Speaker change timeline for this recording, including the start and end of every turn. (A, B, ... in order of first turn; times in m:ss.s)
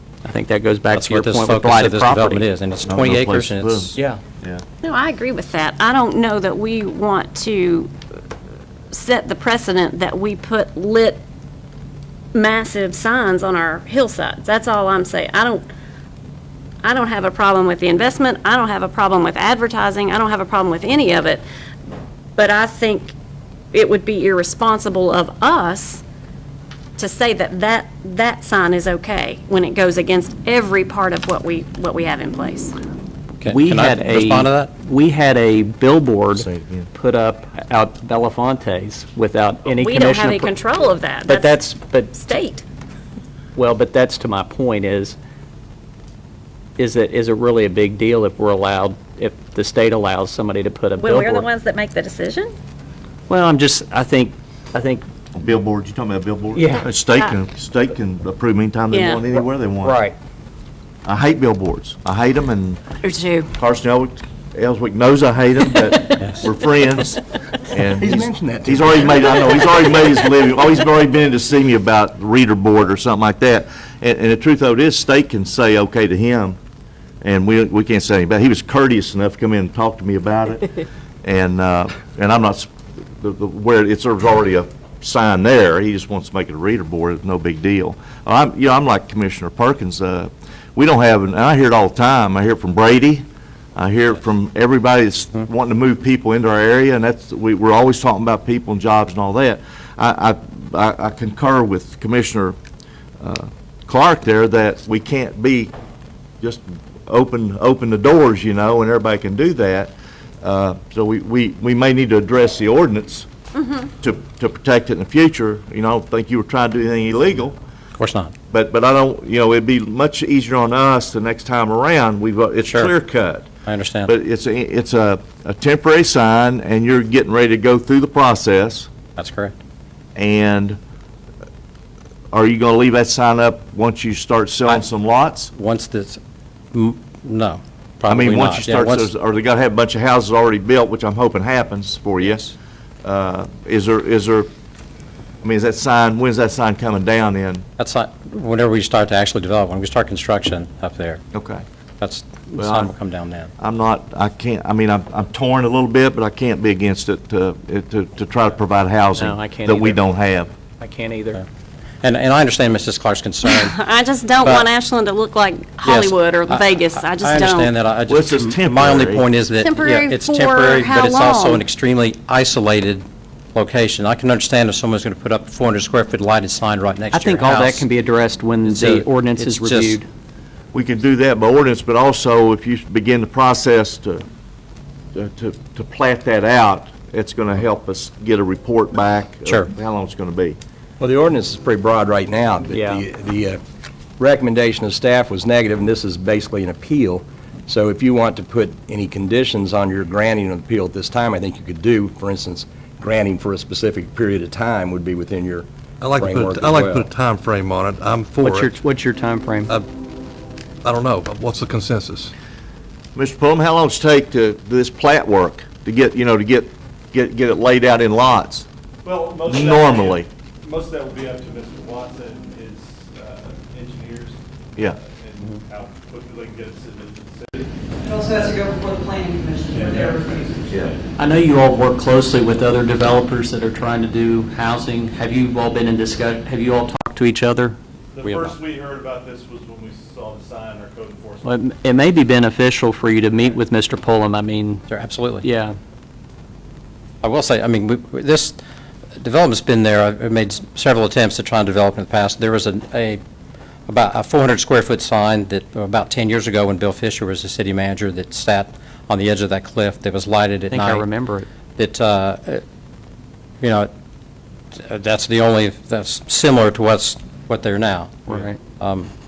0:00.2-0:02.4 A
0:00.9-0:04.0 B
0:02.8-0:04.6 C
0:04.8-0:07.9 D
0:08.9-0:11.2 D
0:12.3-0:15.6 D
0:16.8-0:21.4 D
0:22.4-0:23.1 D
0:23.7-0:26.0 D
0:27.0-0:32.7 D
0:33.4-0:34.7 B
0:33.4-0:40.5 A
0:36.3-0:36.9 C
0:39.8-0:42.6 D
0:41.2-0:42.1 A
0:43.6-0:45.2 A
0:46.8-0:51.5 A
0:51.0-0:52.5 D
0:53.3-0:55.0 A
0:55.3-1:00.0 C
0:56.5-0:56.8 A
0:58.9-0:59.2 D
0:59.8-1:00.1 A
1:01.0-1:02.8 C
1:03.0-1:03.5 D
1:03.5-1:16.6 C
1:07.8-1:09.5 E
1:17.2-1:20.7 C
1:21.2-1:33.2 C
1:33.8-1:42.6 C
1:43.2-1:45.7 C
1:46.4-1:53.3 C
1:53.6-1:53.8 D
1:54.0-1:57.6 C
1:58.0-1:58.3 B
1:58.5-2:03.5 C
2:02.6-2:02.9 B
2:03.6-2:04.1 B
2:04.0-2:08.9 C
2:09.2-2:09.6 B
2:10.1-2:10.8 C
2:12.3-2:15.5 C
2:15.6-2:16.2 B
2:16.7-2:19.1 B
2:18.1-2:24.5 C
2:25.4-2:27.6 C
2:27.8-2:31.2 B
2:31.3-2:31.6 C
2:32.0-2:33.5 B
2:32.6-2:33.0 C
2:33.6-2:40.5 C
2:39.2-2:40.0 A
2:40.8-2:41.4 A
2:42.0-2:43.7 B
2:43.4-2:47.7 D
2:44.4-2:44.7 B
2:45.8-2:57.8 B
2:48.1-2:49.2 C
2:49.6-2:51.6 D
2:57.1-3:00.1 A
2:58.6-3:00.0 B
3:00.7-3:04.2 C
3:05.1-3:10.6 C
3:09.4-3:09.7 B
3:11.0-3:13.6 E
3:12.7-3:13.0 A
3:14.2-3:27.1 E
3:26.0-3:28.7 F
3:28.4-3:29.7 A
3:30.8-3:32.3 F
3:33.1-3:38.7 C
3:39.0-3:47.7 G
3:39.4-3:40.3 C
3:48.0-3:50.2 H
3:48.2-3:48.9 G
3:49.6-3:51.0 G
3:50.7-3:50.9 C
3:51.2-3:57.8 A
3:58.1-4:01.5 G
4:01.4-4:04.8 A
4:04.9-4:05.4 B
4:05.4-4:05.8 A
4:07.2-4:08.6 B
4:09.2-4:13.2 B
4:13.9-4:21.1 B
4:20.7-4:21.5 A
4:21.8-4:22.6 B
4:23.6-4:23.9 B
4:24.8-4:29.1 B
4:28.3-4:28.6 A